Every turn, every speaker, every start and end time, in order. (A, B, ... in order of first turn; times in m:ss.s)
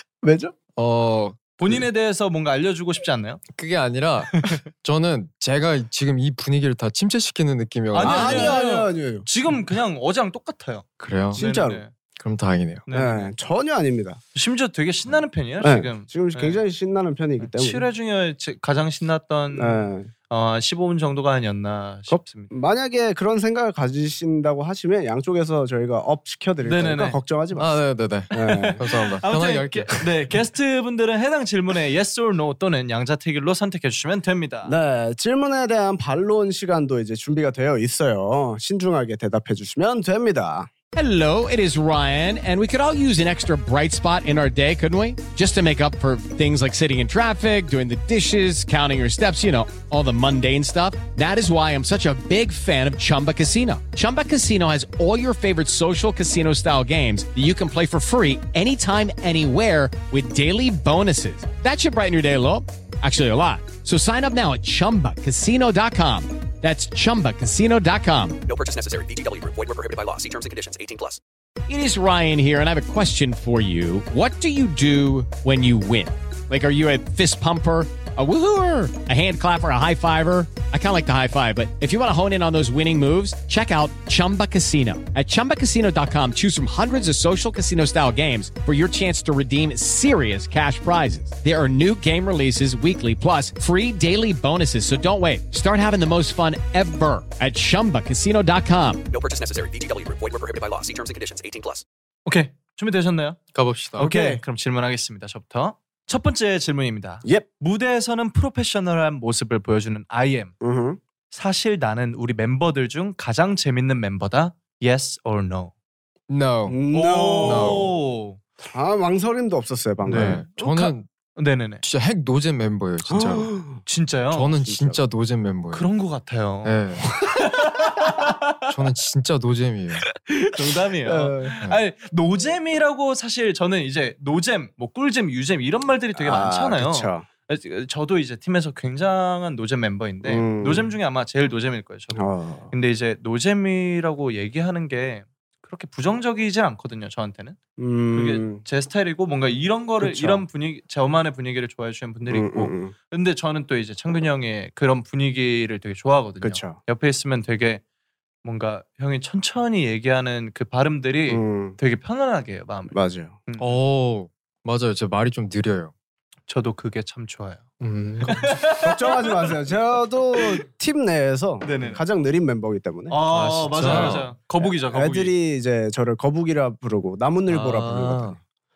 0:00.2-0:00.6 A
0:00.8-0:01.5 B
0:01.6-0:03.4 C
0:03.6-0:08.6 B
0:07.9-0:11.9 C
0:08.0-0:09.3 A
0:11.0-0:11.4 B
0:11.4-0:11.8 A
0:12.2-0:12.9 B
0:12.9-0:13.3 C
0:12.9-0:14.2 A
0:14.4-0:16.6 C
0:15.6-0:17.9 A
0:17.4-0:22.5 C
0:19.5-0:20.1 A
0:22.1-0:27.8 A
0:26.6-0:27.2 C
0:27.5-0:30.0 B
0:28.3-0:28.8 A
0:28.5-0:34.8 C
0:34.6-0:40.7 A
0:40.9-1:08.4 D
1:08.5-1:11.2 E
1:11.7-1:39.0 D
1:39.1-1:41.8 E
1:42.3-1:43.4 C
1:43.5-1:44.1 B
1:44.0-1:44.4 A
1:44.0-1:50.5 C
1:50.6-1:51.0 A
1:51.3-1:55.7 C
1:56.3-1:56.8 B
1:56.7-1:57.9 A
1:56.9-1:58.4 C
1:57.4-1:57.9 B
1:58.7-2:00.4 A
2:00.0-2:01.8 C
2:00.0-2:01.1 B
2:01.8-2:03.5 B
2:03.1-2:03.8 A
2:03.9-2:04.5 C
2:04.3-2:05.9 B
2:04.6-2:05.0 A
2:05.7-2:06.8 C
2:06.6-2:07.1 B
2:07.3-2:08.6 C
2:08.7-2:10.1 B
2:10.3-2:27.6 C
2:11.0-2:11.6 A
2:16.2-2:17.3 A
2:20.2-2:20.9 A
2:22.1-2:22.7 A
2:27.8-2:28.6 A
2:28.1-2:37.8 C
2:30.0-2:30.4 A
2:32.3-2:32.9 A
2:36.4-2:36.8 A
2:38.4-2:43.8 C
2:41.3-2:41.8 A
2:42.9-2:43.4 A
2:43.6-2:45.9 B
2:46.5-2:47.7 C
2:47.8-2:48.6 B
2:48.2-2:49.7 C
2:48.3-2:53.2 A
2:51.6-2:52.0 C
2:53.1-2:55.4 C
2:53.3-2:54.3 B
2:53.7-2:58.4 A
2:57.5-2:58.4 B